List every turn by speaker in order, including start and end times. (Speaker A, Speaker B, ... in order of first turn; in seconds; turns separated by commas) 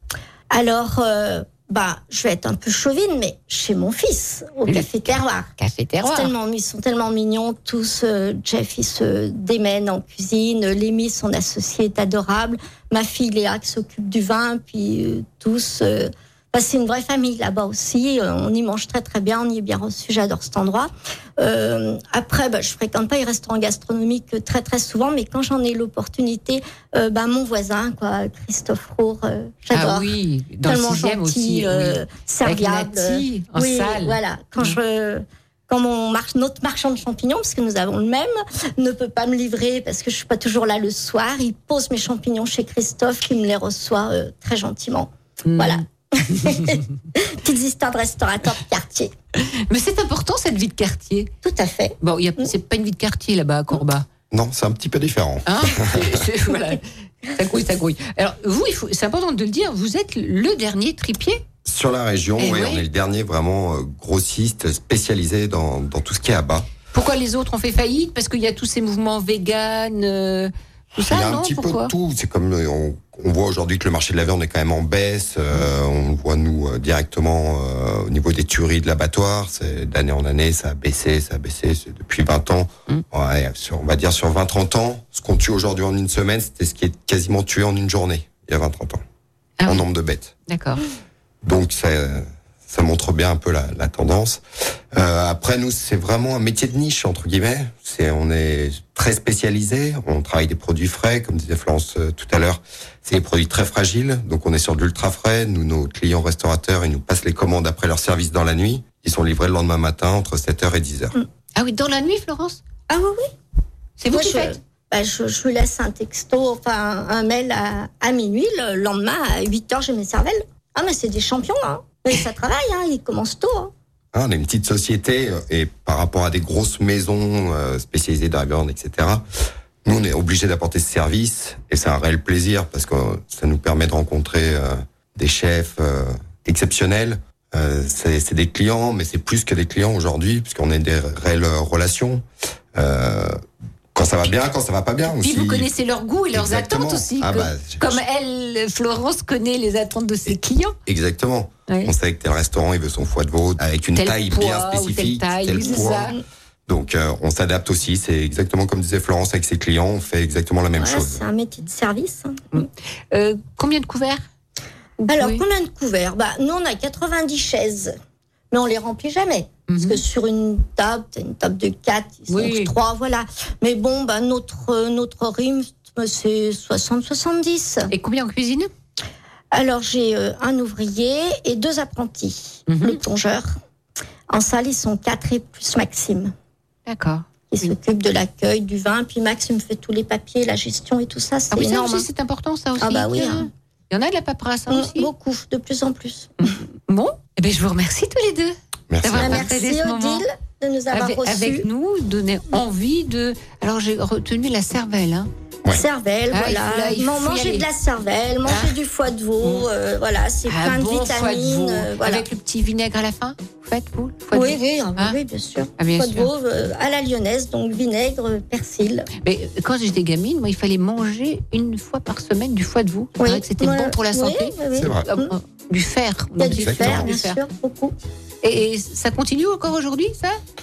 Speaker A: 0.5-5.5, Speaker B: 5.6-6.3, Speaker A: 6.0-49.1, Speaker B: 29.7-34.8, Speaker B: 45.5-46.8, Speaker B: 49.7-51.3, Speaker A: 51.4-52.5, Speaker B: 52.0-54.1, Speaker C: 54.3-56.2, Speaker B: 55.5-61.4, Speaker C: 61.6-66.7, Speaker B: 62.4-62.8, Speaker B: 66.9-71.9, Speaker C: 71.0-89.0, Speaker B: 89.6-89.9, Speaker C: 89.7-90.3, Speaker B: 90.5-90.8, Speaker C: 91.4-94.4, Speaker C: 94.9-111.2, Speaker B: 111.6-112.6, Speaker A: 112.9-113.3, Speaker B: 114.0-114.5, Speaker A: 114.1-123.7, Speaker C: 124.1-129.2, Speaker C: 129.8-143.4, Speaker C: 143.9-145.7, Speaker B: 145.1-150.8, Speaker C: 146.3-148.0, Speaker C: 150.9-161.2, Speaker B: 153.9-156.2, Speaker A: 155.7-156.2, Speaker A: 160.8-162.4, Speaker B: 162.5-164.2, Speaker A: 165.0-167.9, Speaker B: 165.1-165.4, Speaker A: 168.5-177.9, Speaker B: 169.7-170.0, Speaker B: 172.3-172.7, Speaker B: 177.9-178.7, Speaker A: 179.5-183.5, Speaker B: 182.7-183.0, Speaker A: 184.3-186.3, Speaker B: 186.9-187.7, Speaker A: 187.5-192.1, Speaker B: 191.5-195.1, Speaker A: 192.8-193.5, Speaker A: 194.7-196.5, Speaker B: 196.4-200.2, Speaker C: 198.9-199.5, Speaker A: 199.2-201.7, Speaker B: 200.9-205.3, Speaker A: 205.7-212.2, Speaker B: 206.3-207.7, Speaker B: 208.5-208.8, Speaker B: 210.5-215.2, Speaker A: 214.3-219.1, Speaker B: 215.8-216.3, Speaker B: 219.2-224.5, Speaker A: 223.2-225.3, Speaker C: 224.7-225.1, Speaker B: 225.1-227.4, Speaker A: 226.4-228.0, Speaker C: 226.6-227.1, Speaker B: 228.4-230.4